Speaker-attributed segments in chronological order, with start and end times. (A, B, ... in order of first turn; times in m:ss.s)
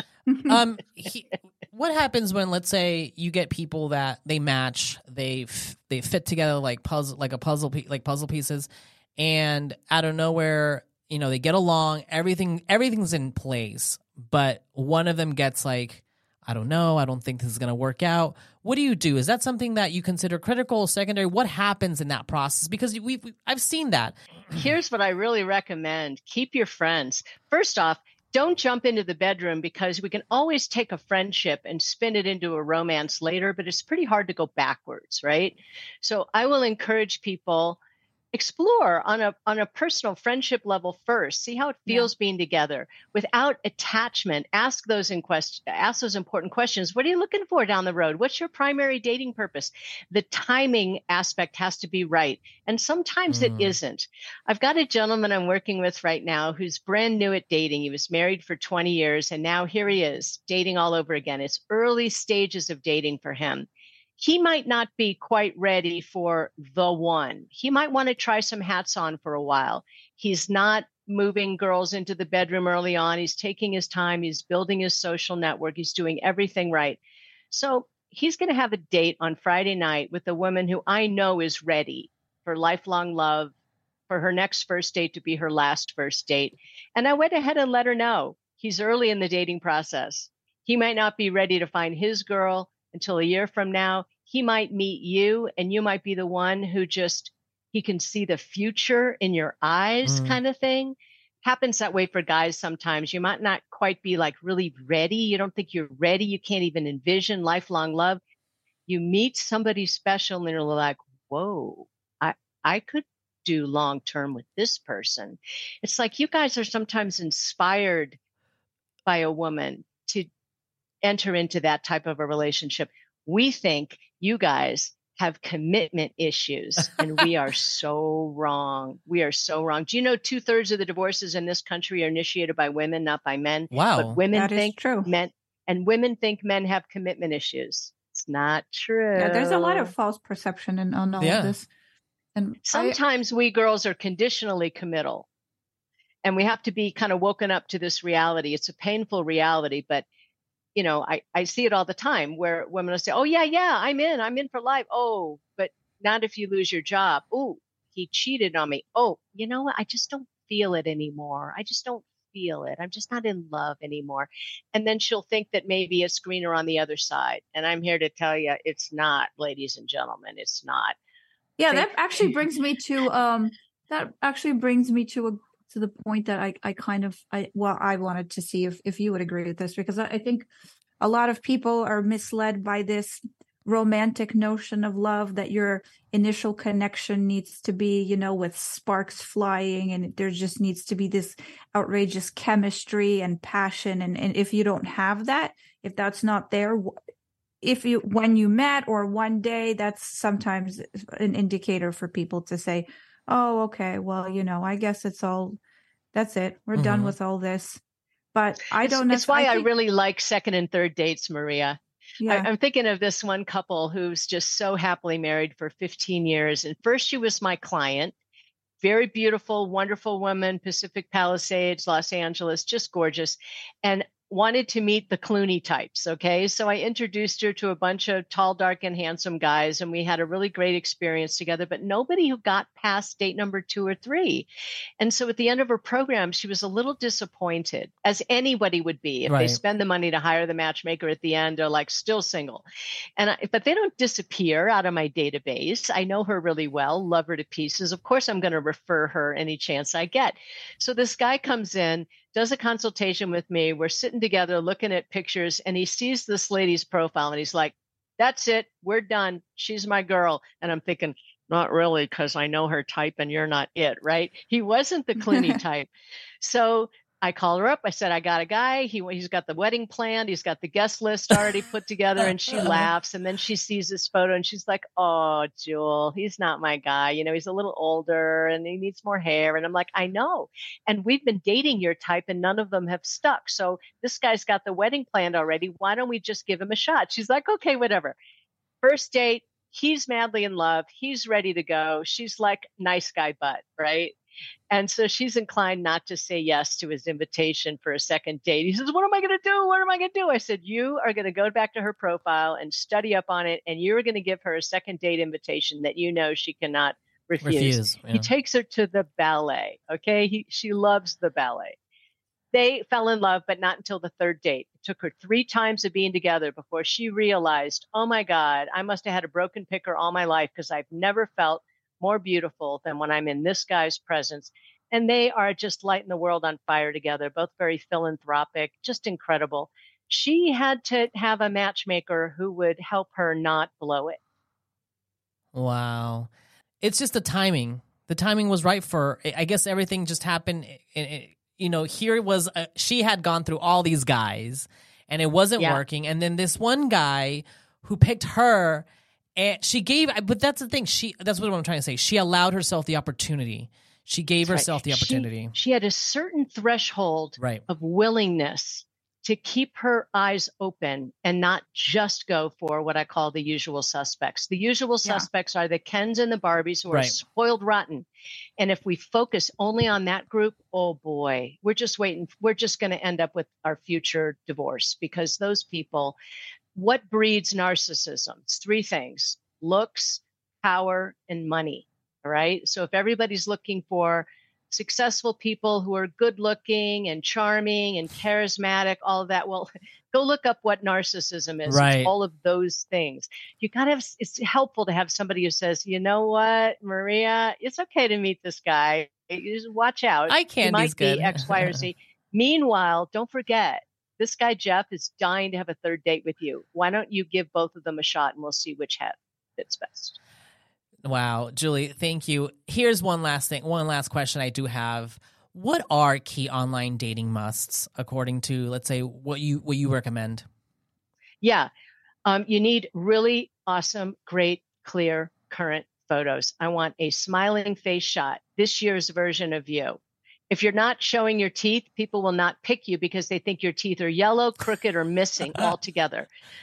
0:00.4-0:24.2 A
0:24.5-0:37.8 B
0:38.3-1:03.7 B
0:53.3-0:53.7 A
1:04.2-1:17.0 B
1:17.5-1:23.5 B
1:24.1-1:48.2 B
1:40.0-1:40.4 A
1:48.9-1:58.2 B
1:59.0-2:00.3 B
2:01.0-2:19.9 B
2:13.7-2:14.2 A
2:14.3-2:15.1 C
2:19.1-2:21.7 C
2:21.2-2:21.6 A
2:22.3-2:23.0 C
2:22.6-2:25.3 B
2:26.2-2:30.0 B
2:30.7-2:51.0 B
2:51.6-3:00.5 C
2:51.7-2:52.3 B
3:01.0-3:16.9 C
3:17.6-3:25.6 C
3:26.1-3:27.8 C
3:26.8-3:27.1 A
3:28.3-3:29.7 C
3:28.8-3:38.1 B
3:32.2-3:32.5 C
3:38.8-3:54.5 B
3:55.0-4:02.6 B
3:59.3-3:59.6 A
4:03.2-4:25.9 B
4:25.2-4:25.6 C
4:26.4-4:48.2 B
4:48.8-4:54.1 B
4:54.7-5:11.8 B
5:07.4-5:08.3 A
5:12.5-5:34.2 B
5:35.5-5:36.3 A
5:36.8-5:48.8 A
5:49.4-5:55.5 A
5:54.5-6:08.0 B
5:57.4-5:57.6 A
6:06.9-6:07.1 A
6:08.6-6:16.2 B
6:16.7-6:50.2 B
6:31.7-6:32.1 A
6:40.3-6:41.8 A
6:51.0-7:00.4 A
7:01.4-7:01.7 B
7:02.2-7:10.0 B
7:10.5-7:16.3 B